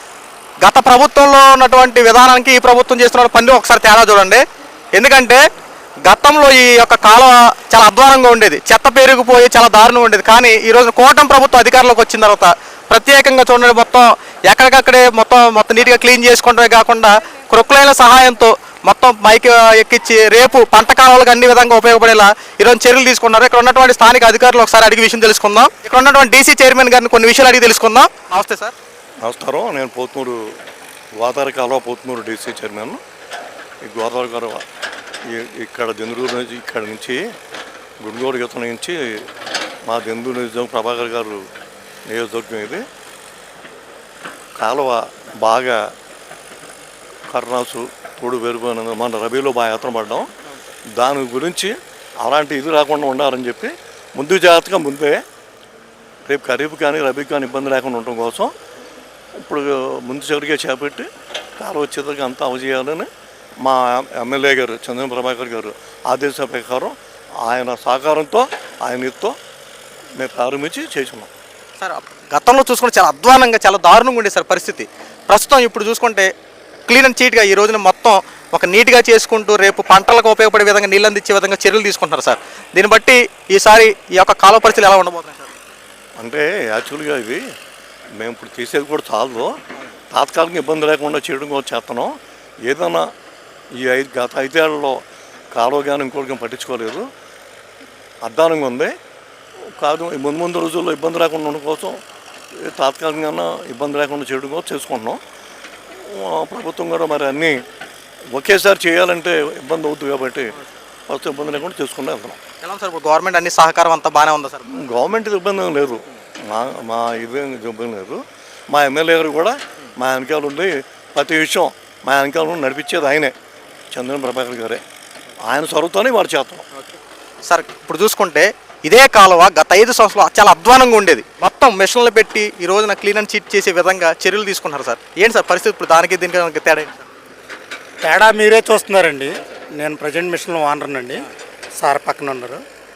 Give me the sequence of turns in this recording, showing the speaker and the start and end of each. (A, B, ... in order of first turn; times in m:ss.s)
0:00.6-0:04.4 A
0:05.0-0:05.4 A
0:06.0-0:28.8 A
0:29.2-0:30.4 B
0:31.2-0:33.0 B
0:33.8-0:34.6 B
0:35.3-0:37.2 B
0:38.0-0:39.2 B
0:39.9-0:41.4 B
0:42.1-0:42.8 B
0:44.6-0:45.8 B
0:47.3-0:50.3 B
0:51.0-0:55.2 B
0:56.2-0:58.5 B
0:59.4-1:01.1 B
1:01.6-1:03.1 B
1:03.6-1:09.4 B
1:10.2-1:11.3 B
1:11.8-1:16.3 A
1:16.9-1:25.6 A
1:26.2-1:27.4 B
1:28.2-1:29.5 B
1:30.1-1:32.1 B
1:32.6-1:33.1 B
1:33.8-1:35.0 B
1:35.5-1:37.0 B
1:38.2-1:38.9 B
1:39.8-1:42.0 B
1:42.6-1:45.2 B
1:46.0-1:47.6 B
1:48.3-1:50.5 B
1:51.1-1:52.4 B
1:52.6-1:54.9 A
1:54.8-2:03.4 B
2:03.9-2:04.8 B
2:05.4-2:06.6 B
2:06.7-2:17.0 A
2:18.0-2:21.2 C
2:21.8-2:22.6 C